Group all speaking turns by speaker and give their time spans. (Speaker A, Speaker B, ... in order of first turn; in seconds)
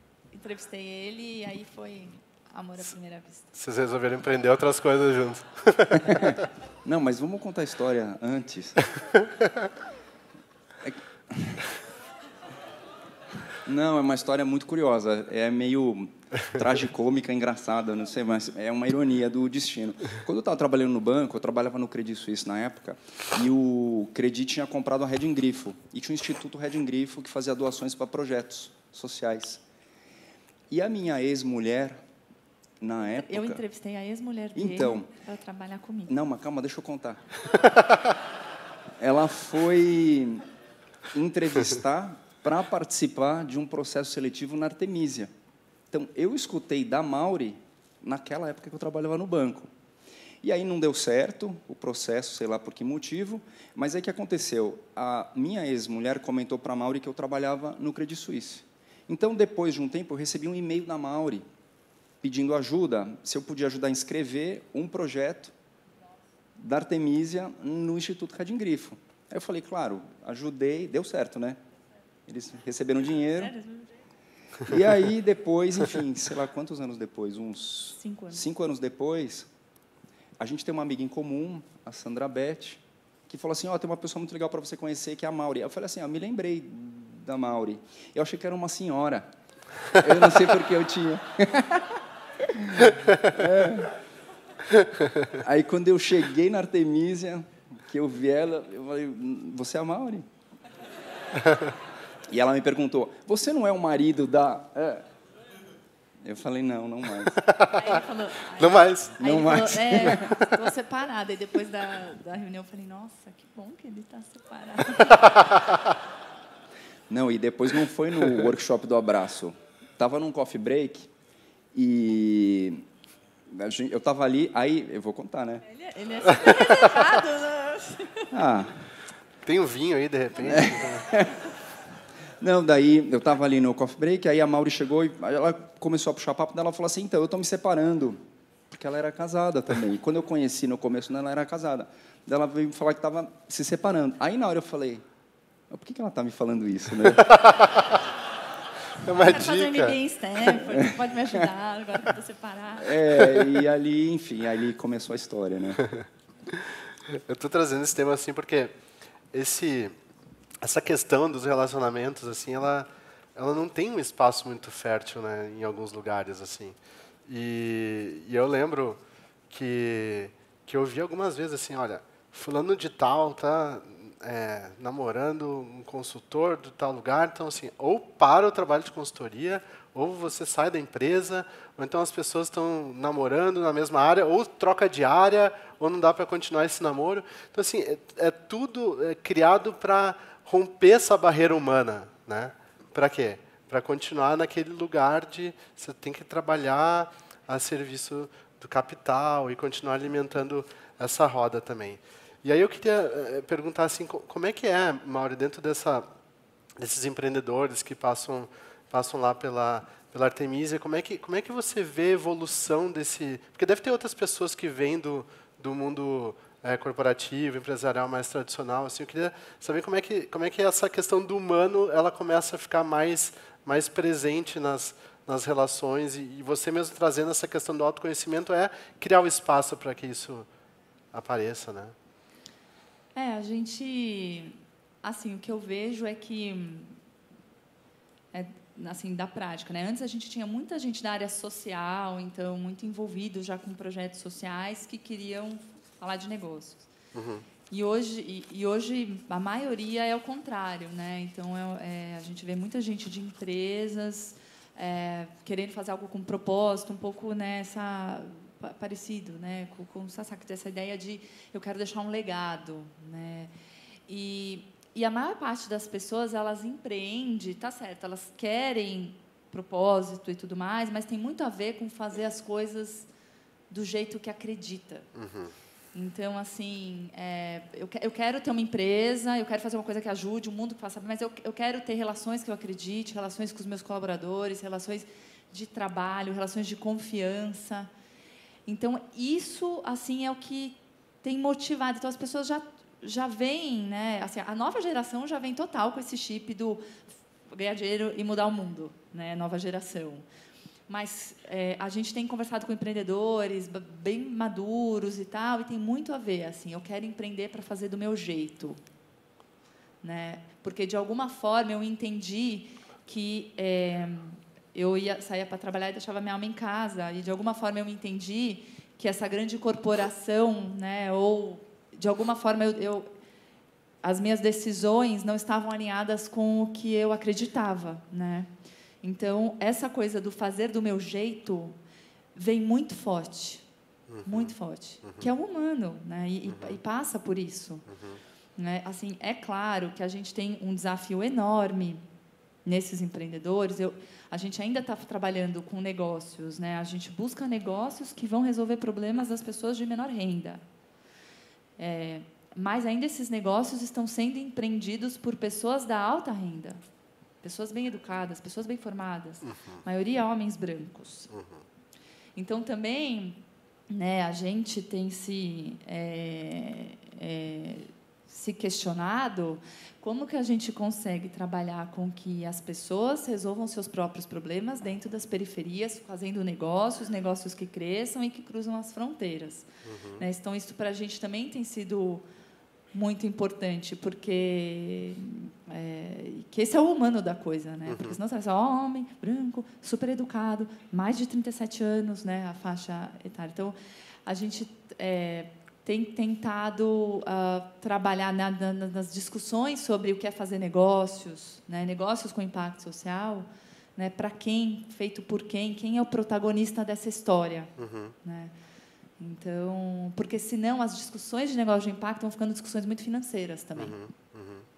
Speaker A: 0.3-3.5, 33.1-36.2, 73.3-73.9, 77.9-78.4, 107.6-115.8, 125.7-128.3, 149.2-153.0, 233.1-237.0, 238.3-246.9, 247.7-263.5, 264.1-273.1, 273.7-275.1, 275.9-287.9, 288.6-296.9, 297.5-300.2, 300.9-308.8, 310.0-323.1, 324.0-328.5, 329.0-331.8, 332.3-333.6, 334.2-337.9, 338.6-342.0, 342.6-350.6, 351.8-356.8, 357.4-361.3, 362.4-379.7, 380.2-382.2, 382.9-407.7, 408.2-408.5, 409.2-413.9
Speaker B: 3.5-6.4, 107.3-107.9, 108.5-109.2, 110.1-110.5, 129.4-131.1, 147.4-147.8, 149.0-150.0, 156.5-158.7, 159.3-159.9, 160.6-206.1, 206.8-230.5, 231.1-231.9, 247.1-247.4, 275.1-275.5, 334.1-334.5, 336.5-336.8, 337.9-338.2, 359.5-359.8, 361.3-361.6, 379.8-380.2, 387.9-388.1, 407.8-408.1, 413.8-414.6
Speaker C: 6.0-8.8, 10.8-11.7, 13.6-29.6, 30.7-32.0, 32.8-33.6, 34.5-35.1, 36.1-37.3, 39.0-40.4, 41.1-45.3, 45.9-49.7, 50.4-61.4, 62.2-65.5, 66.5-71.6, 72.3-73.5, 74.6-79.5, 80.4-89.3, 89.9-93.9, 95.3-100.3, 102.3-105.0, 106.2-107.4, 109.2-110.2, 117.1-121.1, 121.7-122.8, 123.5-125.6, 128.3-128.8, 130.4-131.4, 132.4-145.0, 145.7-147.6, 152.8-155.8